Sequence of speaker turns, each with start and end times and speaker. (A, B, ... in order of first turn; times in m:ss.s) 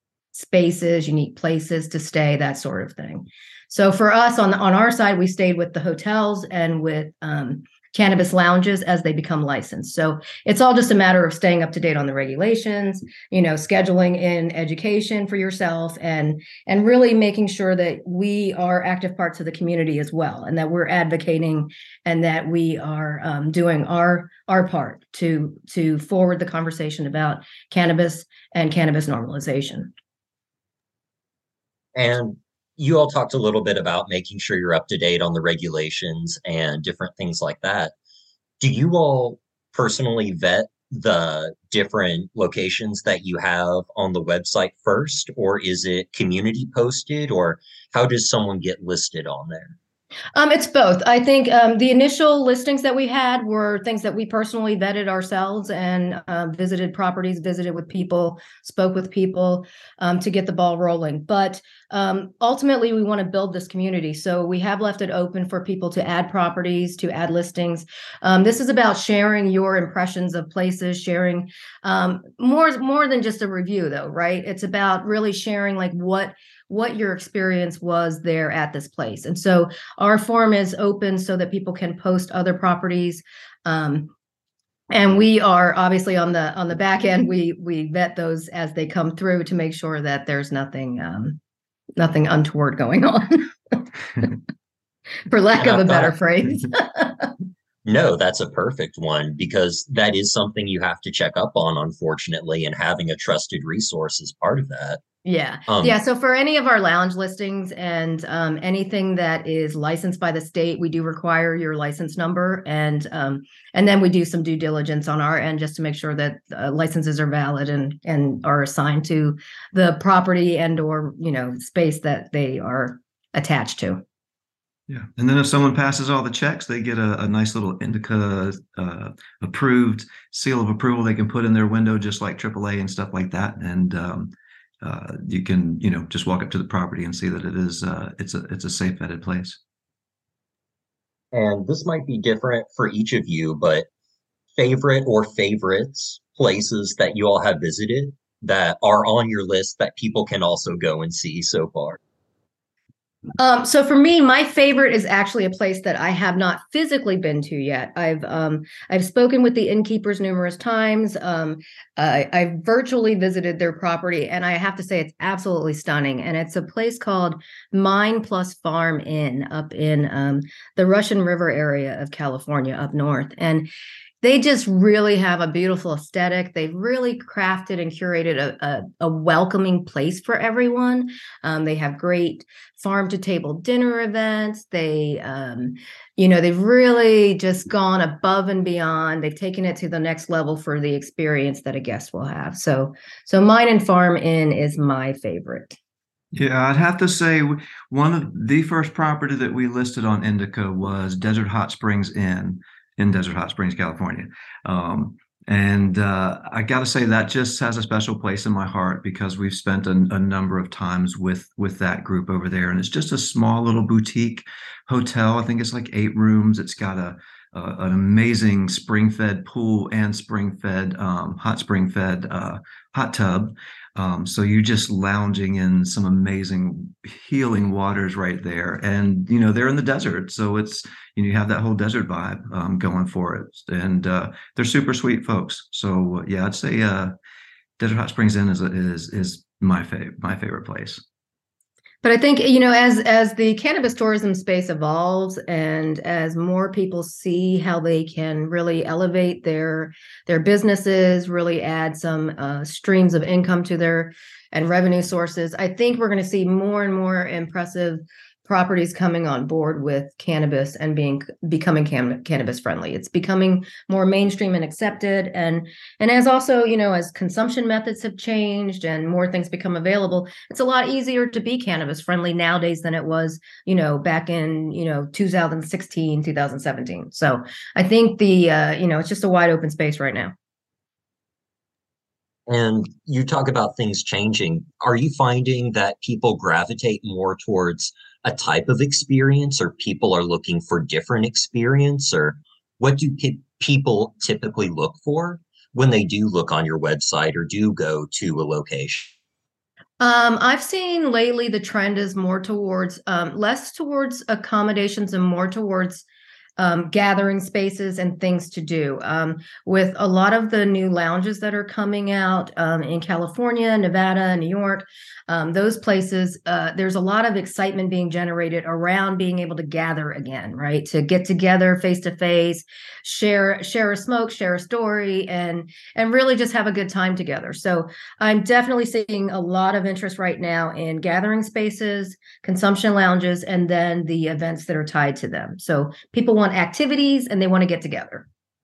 0:00.3-0:29.9 A
0:31.9-0:37.9 B
0:38.6-0:49.8 B
0:50.3-1:24.1 A
1:24.9-1:31.4 A
1:32.0-1:33.5 A
1:35.3-1:37.3 A
1:35.6-1:36.1 B
1:37.8-1:45.0 B
1:45.2-2:04.0 A
1:45.7-1:46.0 B
2:04.9-2:19.6 C
2:21.3-2:23.9 B
2:24.6-2:32.0 B
2:33.4-2:53.7 A
2:54.2-3:15.8 A
3:16.3-3:57.1 C
3:57.8-4:01.0 C
4:02.0-4:40.3 A
4:42.5-4:59.1 B
5:00.0-5:06.0 A
5:06.6-5:38.3 A